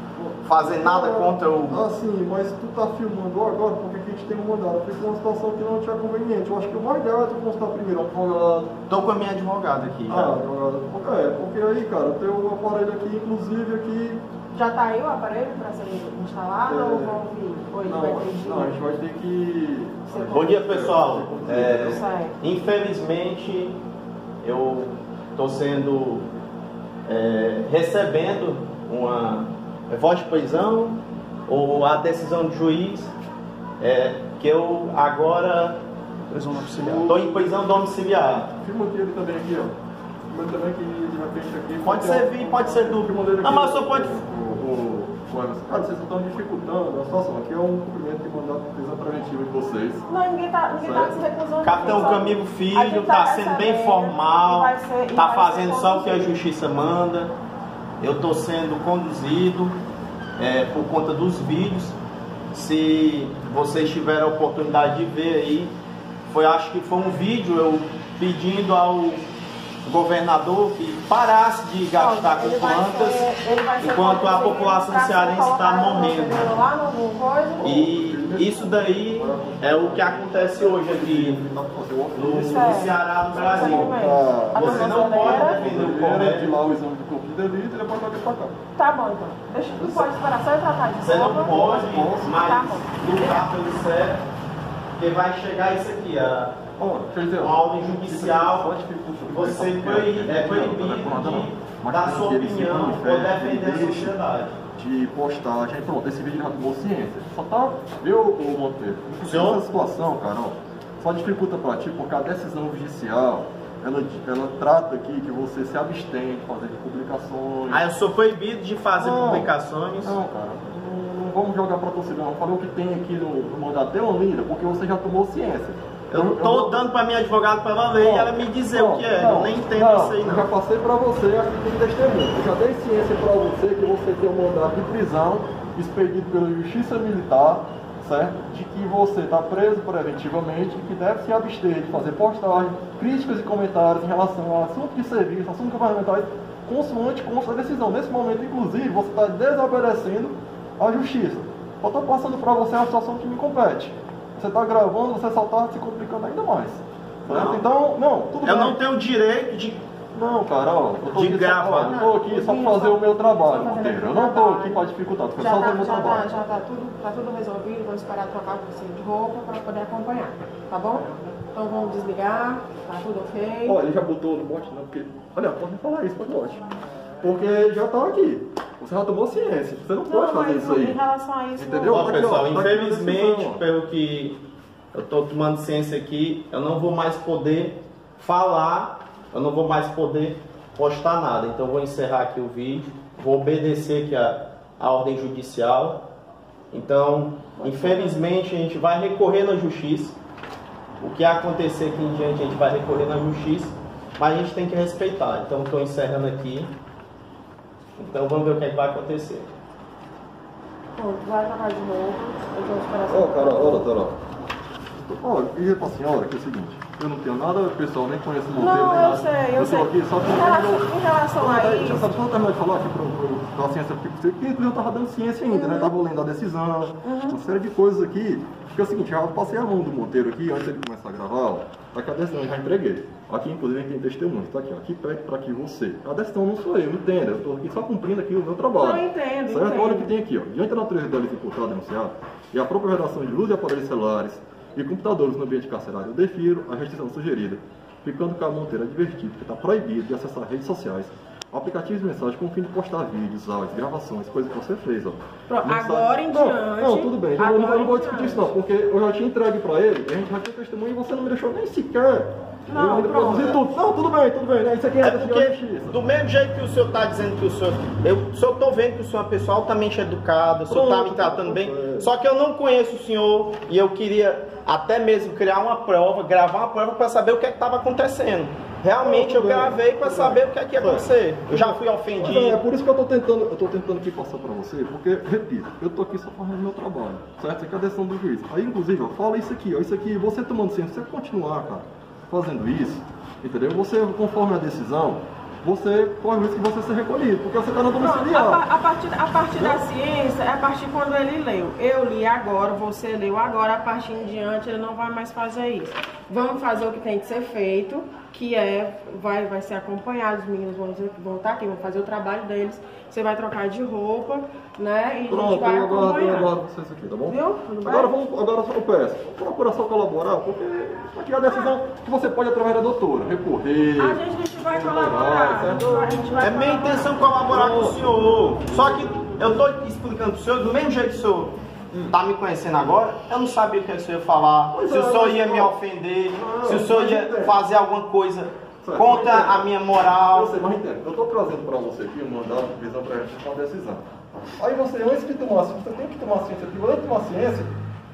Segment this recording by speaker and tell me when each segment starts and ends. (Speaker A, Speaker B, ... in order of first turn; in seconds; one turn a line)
Speaker A: 0.1-8.8
Speaker B: 0.5-1.9
Speaker B: 8.9-10.4
Speaker A: 10.1-14.2
Speaker C: 14.5-18.8
Speaker A: 16.7-17.2
Speaker A: 17.9-22.1
Speaker C: 20.1-20.5
Speaker B: 20.3-23.8
Speaker C: 21.9-22.4
Speaker B: 24.4-26.3
Speaker B: 27.1-33.1
Speaker B: 33.8-35.8
Speaker A: 36.3-37.4
Speaker B: 36.7-38.5
Speaker A: 38.5-39.7
Speaker A: 40.3-50.1
Speaker B: 41.8-44.2
Speaker C: 50.1-56.3
Speaker A: 50.8-51.2
Speaker B: 51.6-57.4
Speaker B: 58.0-59.8
Speaker B: 60.4-62.0
Speaker B: 62.5-69.2
Speaker B: 69.8-73.3
Speaker C: 71.9-77.8
Speaker B: 73.8-76.6
Speaker A: 77.6-88.6
Speaker B: 77.6-81.4
Speaker B: 82.1-86.5
Speaker C: 82.4-82.9
Speaker C: 83.5-85.6
Speaker C: 88.8-93.5
Speaker A: 89.8-90.1
Speaker B: 91.0-94.2
Speaker A: 91.3-92.3
Speaker B: 95.0-96.6
Speaker A: 96.8-104.2
Speaker B: 97.4-98.7
Speaker B: 99.3-104.6
Speaker A: 104.8-117.9
Speaker B: 109.2-109.6
Speaker B: 117.7-120.2
Speaker A: 119.0-119.5
Speaker A: 120.0-126.9
Speaker B: 126.1-130.5
Speaker A: 128.0-158.8
Speaker B: 157.3-157.7
Speaker B: 158.4-159.8
Speaker A: 160.1-166.3
Speaker B: 161.1-162.0
Speaker C: 161.8-164.8
Speaker C: 165.4-173.8
Speaker A: 173.7-176.7
Speaker A: 177.2-181.0
Speaker C: 180.1-182.3
Speaker A: 181.6-183.7
Speaker B: 181.9-184.4
Speaker B: 184.9-196.1
Speaker B: 196.7-200.2
Speaker A: 197.6-198.2
Speaker B: 201.0-206.7
Speaker B: 208.0-209.5
Speaker C: 211.0-213.8
Speaker A: 213.1-214.2
Speaker A: 215.0-266.0
Speaker C: 218.6-222.1
Speaker C: 225.5-225.9
Speaker C: 227.0-227.4
Speaker C: 238.8-240.1
Speaker C: 255.5-258.5
Speaker C: 262.7-263.6
Speaker B: 265.0-282.6
Speaker A: 270.7-272.1
Speaker A: 279.0-298.6
Speaker C: 298.0-316.5
Speaker A: 299.6-299.8
Speaker A: 315.3-326.6
Speaker C: 317.3-318.1
Speaker C: 321.5-321.7
Speaker C: 324.0-327.2
Speaker B: 326.4-331.6
Speaker A: 327.5-328.1
Speaker A: 328.7-329.2
Speaker A: 331.9-332.2
Speaker B: 332.1-340.6
Speaker A: 334.7-335.8
Speaker A: 336.3-337.6
Speaker A: 338.8-339.7
Speaker A: 340.3-344.0
Speaker A: 344.6-347.7